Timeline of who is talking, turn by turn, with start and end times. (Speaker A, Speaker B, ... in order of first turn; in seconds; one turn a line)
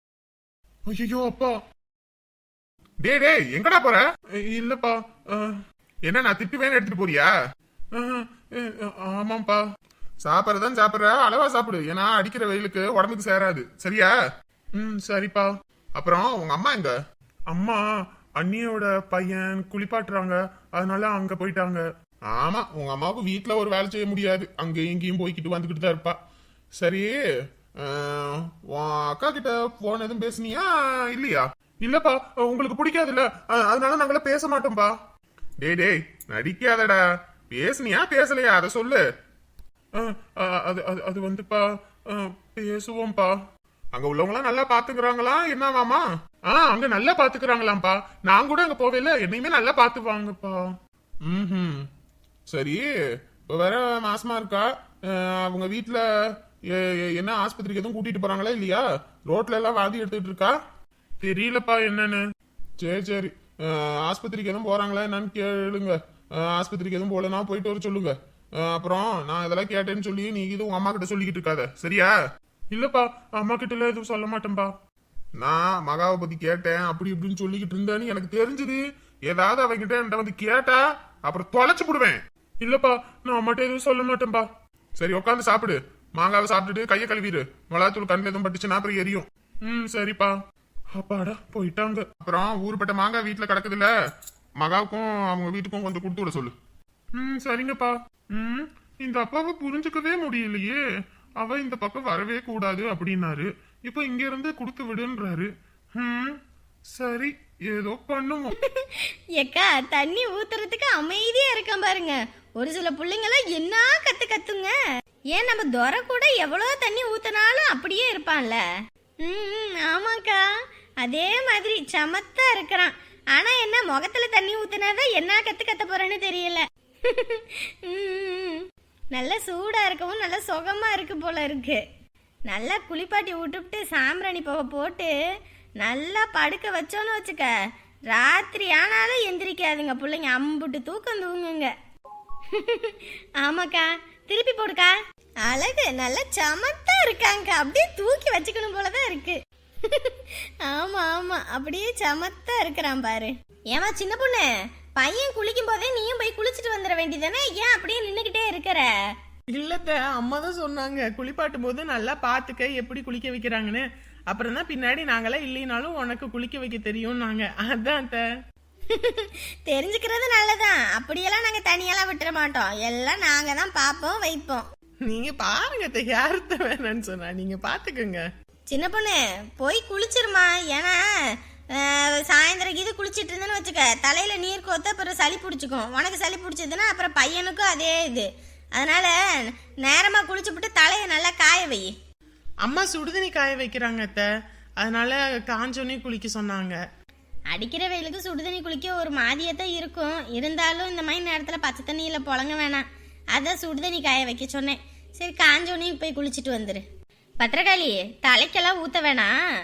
Speaker A: 0.9-1.6
Speaker A: 3.0-7.3
Speaker A: 7.9-9.6
Speaker A: 10.2-14.1
Speaker A: 14.8-16.9
Speaker A: 17.5-17.8
Speaker A: 18.4-26.1
Speaker A: 26.8-27.1
Speaker A: 27.8-34.9
Speaker A: 35.6-37.0
Speaker A: 37.5-39.0
Speaker A: 40.0-43.3
Speaker A: 43.9-50.7
Speaker A: 51.2-51.9
Speaker A: 52.5-52.8
Speaker A: 53.5-56.0
Speaker A: 56.7-60.5
Speaker A: 61.2-62.2
Speaker A: 62.8-72.1
Speaker A: 72.7-74.7
Speaker A: 75.4-84.5
Speaker A: 85.0-90.3
Speaker A: 90.9-93.9
Speaker A: 94.6-96.5
Speaker A: 97.2-100.8
Speaker A: 101.4-106.4
Speaker A: 106.9-108.5
Speaker B: 108.6-114.8
Speaker B: 115.3-118.6
Speaker B: 119.2-131.8
Speaker B: 132.5-135.1
Speaker B: 135.8-137.5
Speaker B: 138.1-141.7
Speaker B: 142.5-159.1
Speaker C: 159.5-168.2
Speaker B: 168.9-174.6
Speaker C: 175.0-178.2
Speaker B: 178.7-181.0
Speaker B: 181.7-191.9
Speaker C: 192.6-196.8
Speaker B: 197.5-206.8
Speaker B: 207.4-209.3